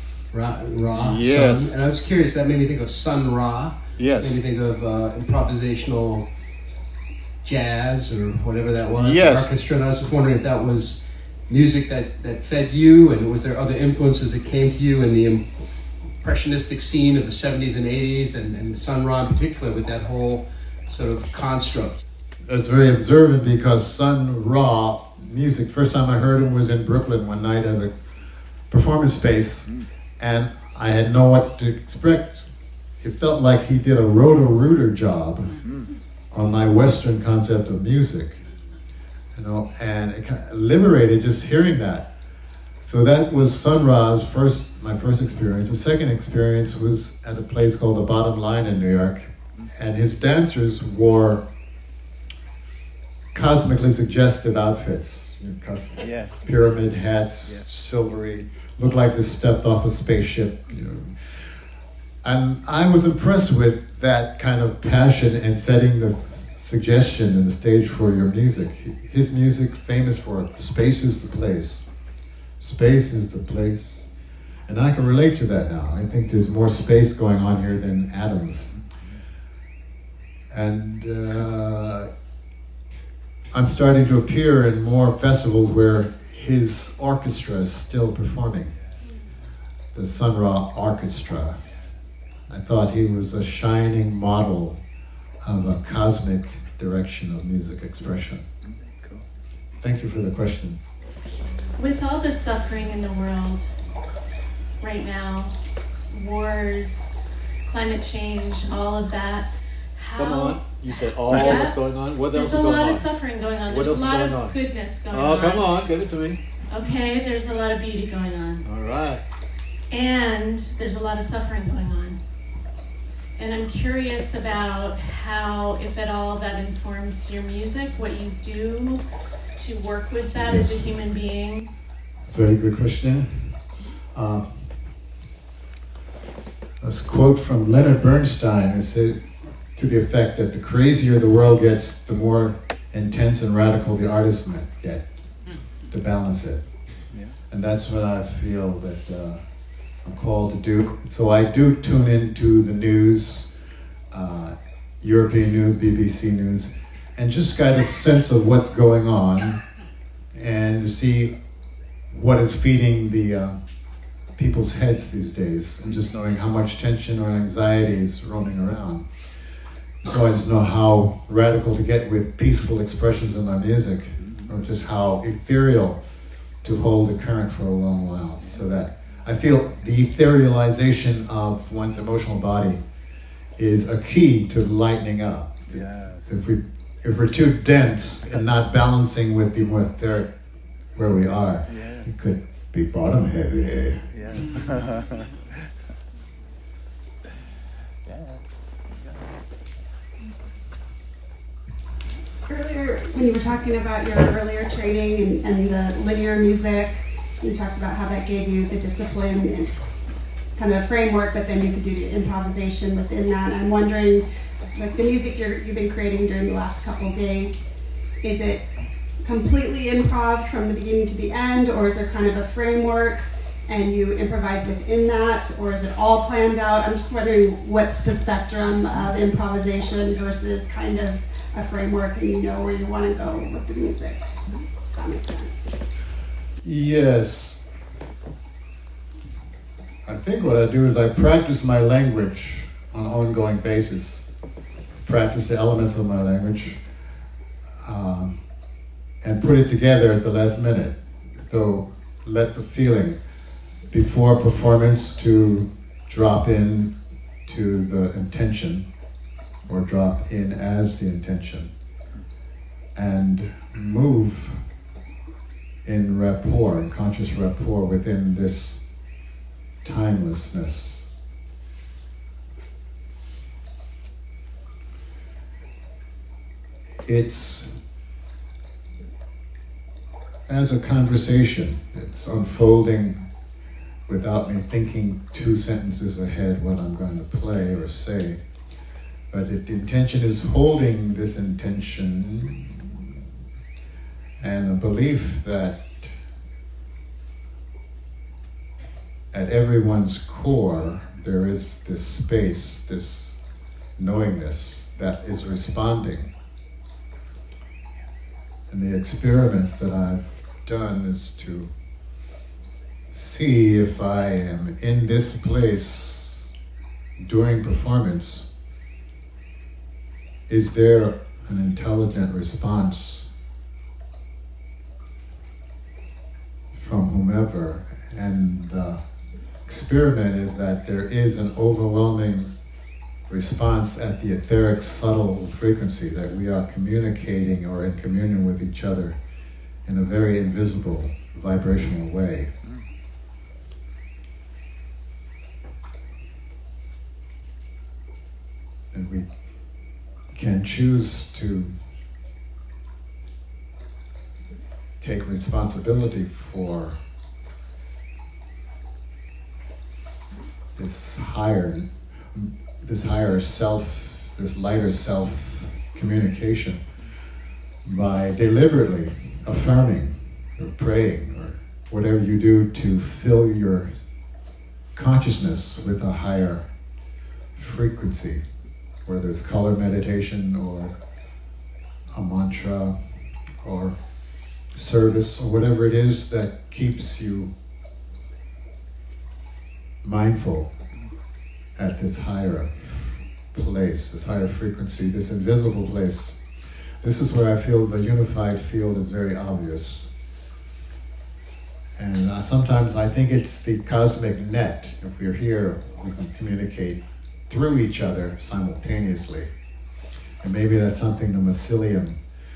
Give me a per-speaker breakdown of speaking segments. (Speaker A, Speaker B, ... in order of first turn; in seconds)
Speaker A: 0.3-6.3, 7.4-15.5, 16.2-22.0
Speaker B: 0.9-1.7, 4.0-4.4, 9.0-9.5, 22.4-28.0, 28.7-35.6, 36.3-38.4, 39.3-42.1, 42.9-51.5, 53.3-61.5, 62.2-71.9, 72.6-74.1, 74.7-78.8, 80.5-82.1, 83.5-88.7, 89.9-91.6, 92.5-94.8, 95.4-98.4, 99.8-100.8, 110.1-113.0, 113.7-114.5, 115.1-116.4, 118.6-119.2, 130.3-130.9, 132.3-134.7, 136.8-145.1, 145.9-146.7, 147.5-149.4, 150.0-153.6, 154.1-159.6, 160.3-161.3, 162.1-163.6, 164.3-169.3, 170.0-176.0, 176.6-182.8, 183.6-190.3, 190.9-194.1, 236.6-237.7, 240.1-244.3, 245.0-246.8, 247.8-248.4, 249.2-253.2, 253.9-256.9, 257.4-258.9, 259.6-261.7, 262.9-264.6, 265.8-268.8, 269.8-271.1, 277.0-277.8, 280.5-283.3, 284.1-288.4, 289.3-292.9, 294.4-296.1, 299.3-303.4, 304.0-306.3, 308.7-311.7, 313.1-316.5, 317.2-318.5, 320.5-323.3, 326.7-329.0, 329.6-332.5, 333.3-339.2, 339.9-342.5, 348.9-349.3, 350.3-351.7, 355.0-357.0, 360.8-366.9, 367.8-373.9, 374.9-376.7, 377.6-378.4, 379.0-380.9, 382.1-383.0, 383.6-384.0, 384.7-387.5, 390.0-390.7, 391.8-396.5, 397.0-400.1, 401.9-409.5, 410.4-412.2
Speaker C: 35.6-35.9, 56.0-56.4, 78.7-79.2, 88.7-89.0, 98.6-99.2, 111.3-111.6, 165.8-166.1, 174.2-174.5, 185.7-186.4, 191.7-192.1, 194.1-195.7, 198.0-199.3, 307.9-308.3, 342.6-342.9
Speaker D: 101.8-103.7, 104.8-105.5, 106.1-111.8, 112.3-115.7, 116.7-118.7, 119.9-122.2, 123.4-129.0, 129.6-131.6
Speaker E: 202.5-209.8, 210.5-234.4, 234.9-235.7